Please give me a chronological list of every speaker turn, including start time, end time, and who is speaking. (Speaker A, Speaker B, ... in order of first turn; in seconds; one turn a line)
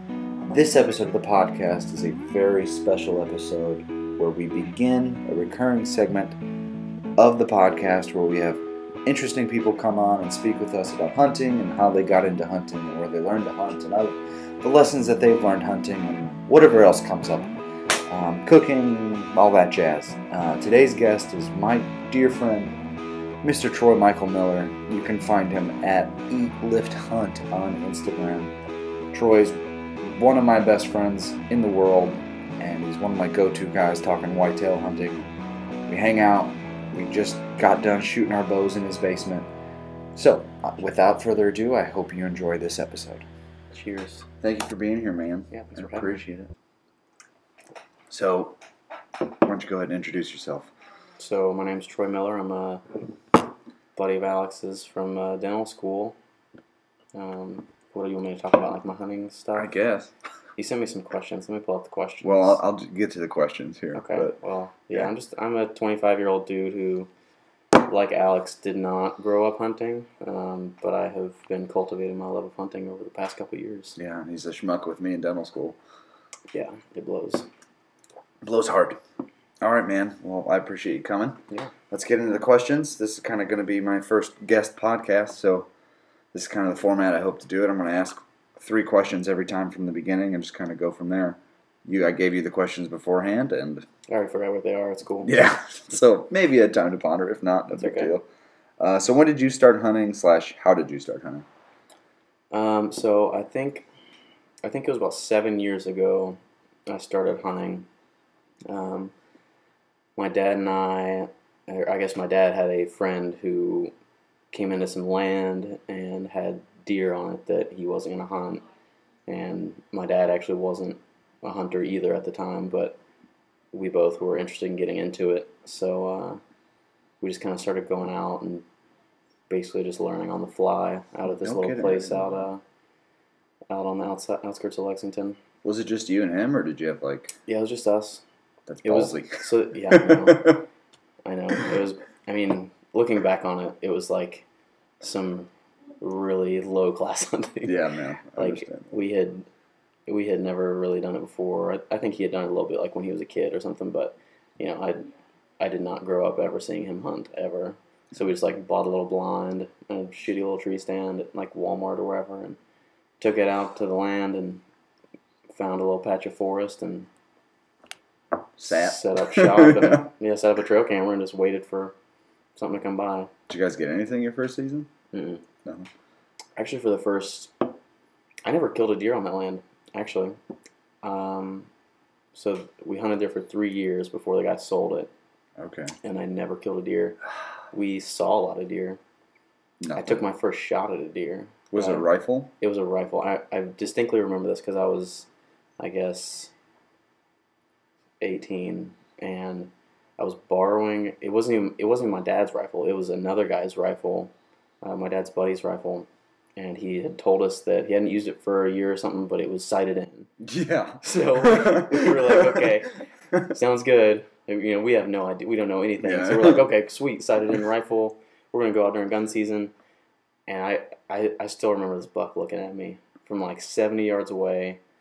Speaker A: 0.4-6.4
Speaker A: 7.2-17.5
Speaker A: 18.1-22.8
Speaker A: 23.4-28.5
Speaker A: 29.1-35.2
Speaker A: 35.9-39.5
Speaker A: 40.1-43.3
Speaker B: 43.7-44.3
Speaker A: 44.4-46.5
Speaker B: 45.5-46.2
Speaker A: 48.1-48.6
Speaker A: 49.2-50.7
Speaker B: 51.2-53.1
Speaker B: 54.0-56.2
Speaker B: 57.1-59.7
Speaker A: 59.5-60.1
Speaker B: 60.6-62.6
Speaker A: 62.2-64.4
Speaker B: 63.9-67.1
Speaker B: 67.8-74.0
Speaker A: 74.0-75.8
Speaker B: 76.5-77.5
Speaker A: 78.4-79.0
Speaker A: 79.6-85.7
Speaker A: 86.3-93.9
Speaker B: 94.1-95.4
Speaker A: 95.2-98.2
Speaker B: 97.7-98.1
Speaker A: 98.8-101.5
Speaker B: 102.5-103.9
Speaker B: 104.6-107.9
Speaker B: 108.7-109.1
Speaker B: 110.2-113.9
Speaker B: 114.5-118.7
Speaker B: 119.3-123.0
Speaker B: 123.7-126.4
Speaker B: 127.2-128.7
Speaker B: 129.5-132.6
Speaker A: 131.3-132.5
Speaker B: 133.7-135.4
Speaker A: 135.6-137.4
Speaker B: 137.5-138.2
Speaker A: 138.7-140.6
Speaker B: 138.8-140.7
Speaker B: 141.2-144.5
Speaker B: 145.0-145.5
Speaker B: 146.0-149.5
Speaker A: 147.6-148.9
Speaker B: 150.1-162.6
Speaker B: 163.2-164.6
Speaker B: 165.5-167.1
Speaker A: 168.6-170.1
Speaker B: 168.7-172.0
Speaker B: 172.6-173.3
Speaker A: 173.5-174.9
Speaker B: 175.1-175.4
Speaker B: 176.6-177.8
Speaker B: 178.4-180.4
Speaker B: 181.0-181.7
Speaker B: 182.3-185.1
Speaker A: 185.6-185.9
Speaker B: 186.0-187.2
Speaker B: 187.7-189.0
Speaker A: 189.8-190.3
Speaker B: 190.0-192.1
Speaker A: 191.7-192.5
Speaker B: 192.6-195.3
Speaker B: 195.8-196.5
Speaker B: 198.2-210.3
Speaker A: 210.4-212.7
Speaker B: 211.0-219.7
Speaker A: 216.0-216.7
Speaker B: 220.5-224.8